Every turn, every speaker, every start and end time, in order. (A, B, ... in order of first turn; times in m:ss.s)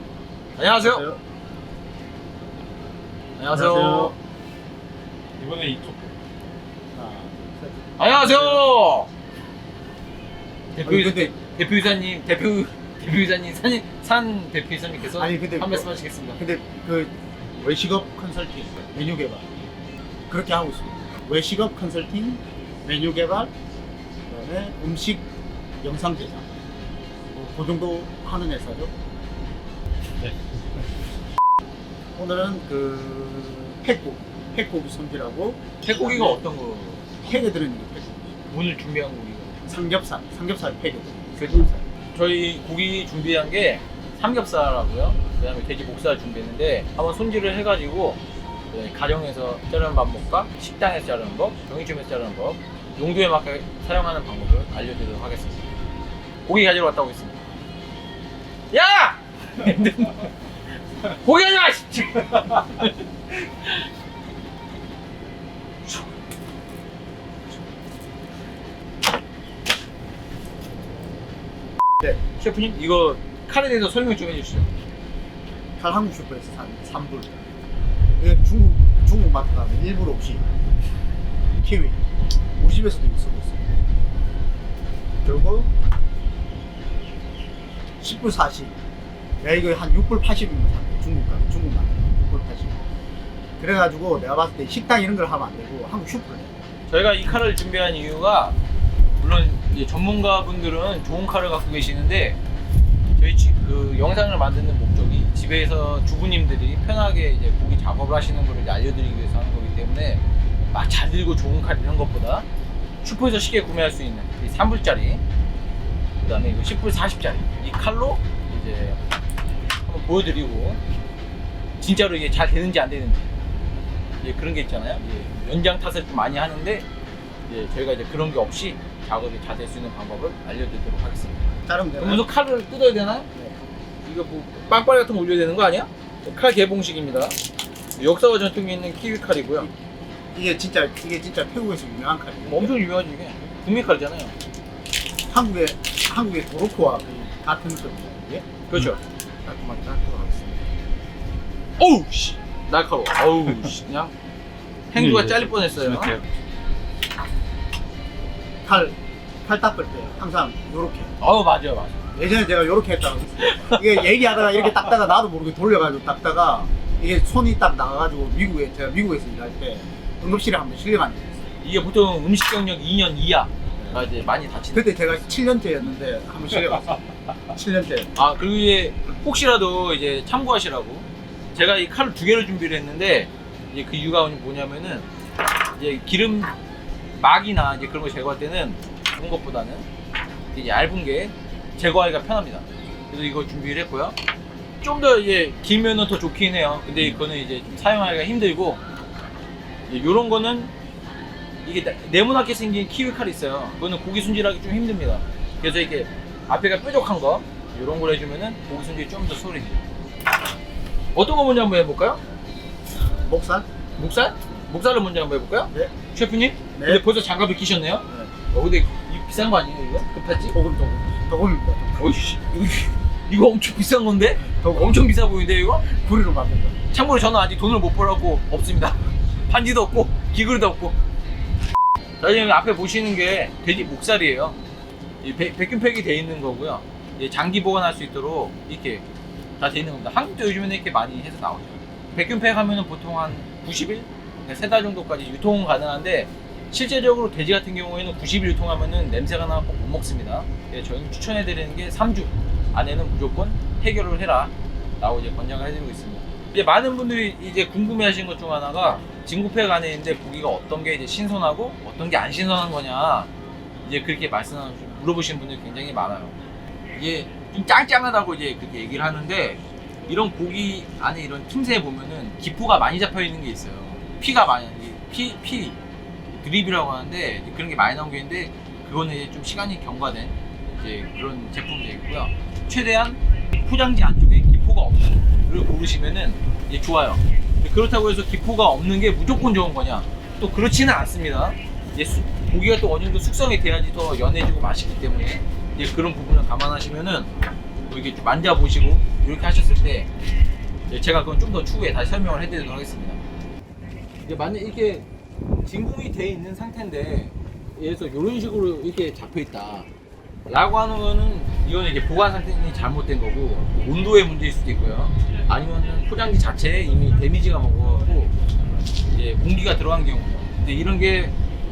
0:00.6-0:01.0 A
0:00.8-0:01.2 B
0:03.4-0:04.2 A
0:03.5-0:04.2 B
0:05.4-0:06.2 C
0:06.9-0:08.6 B
0:08.0-0:09.1 A
0:10.7-0:16.4 A
0:10.8-0:11.3 B
0:15.2-0:19.5 B
0:20.3-0:23.5 B
0:24.3-0:25.2 B
0:25.8-0:26.5 B
0:27.4-0:28.9 B
0:30.2-0:30.5 C
0:32.1-0:36.4 B
0:35.8-0:37.2 A
0:37.2-0:38.3 B
0:38.5-0:39.6 A
0:39.7-0:41.8 B
0:41.4-0:48.2 A
0:48.7-0:55.6 A
0:56.5-0:57.4 A
0:58.7-1:00.3 A
1:01.0-1:03.8 A
1:12.4-1:14.7 A
1:15.8-1:17.4 B
1:18.2-1:20.5 B
1:21.6-1:22.0 B
1:22.6-1:23.7 B
1:25.2-1:25.7 B
1:28.0-1:28.8 B
1:29.4-1:32.8 B
1:33.6-1:36.6 B
1:36.9-1:38.6 A
1:39.2-1:42.4 A
1:43.2-1:52.5 A
1:53.0-1:55.2 A
1:56.2-1:59.0 A
1:59.8-2:00.8 A
2:01.8-2:03.3 A
2:04.2-2:06.8 A
2:07.5-2:13.3 A
2:11.7-2:12.2 B
2:14.0-2:17.4 A
2:18.0-2:19.7 A
2:20.3-2:22.7 B
2:22.5-2:24.4 A
2:25.3-2:28.5 B
2:28.7-2:30.6 A
2:31.8-2:34.1 A
2:34.9-2:36.2 A
2:35.0-2:36.2 C
2:38.6-2:41.1 B
2:41.2-2:42.0 A
2:42.1-2:51.5 B
2:43.4-2:43.8 A
2:51.6-2:55.3 A
2:53.8-2:54.1 B
2:54.7-2:57.0 B
2:57.5-2:58.1 B
2:58.2-3:05.1 A
3:05.6-3:06.5 A
3:07.2-3:09.9 A
3:10.5-3:14.2 A
3:14.8-3:18.8 A
3:19.9-3:20.7 A
3:21.6-3:29.9 A
3:31.1-3:32.2 A
3:33.0-3:33.7 B
3:34.0-3:40.6 A
3:36.8-3:37.0 B
3:40.5-3:42.2 B
3:42.0-3:45.9 A
3:44.4-3:45.0 B
3:45.9-3:46.8 B
3:46.9-3:51.0 A
3:52.2-3:54.6 A
3:55.2-3:59.0 A
3:59.6-4:23.3 A
4:23.8-4:26.4 A
4:26.9-4:35.8 A
4:36.3-4:57.3 A
4:57.9-5:00.1 A
5:00.9-5:03.2 A
5:04.2-5:05.1 A
5:05.7-5:09.9 A
5:10.5-5:18.3 A
5:19.1-5:21.4 A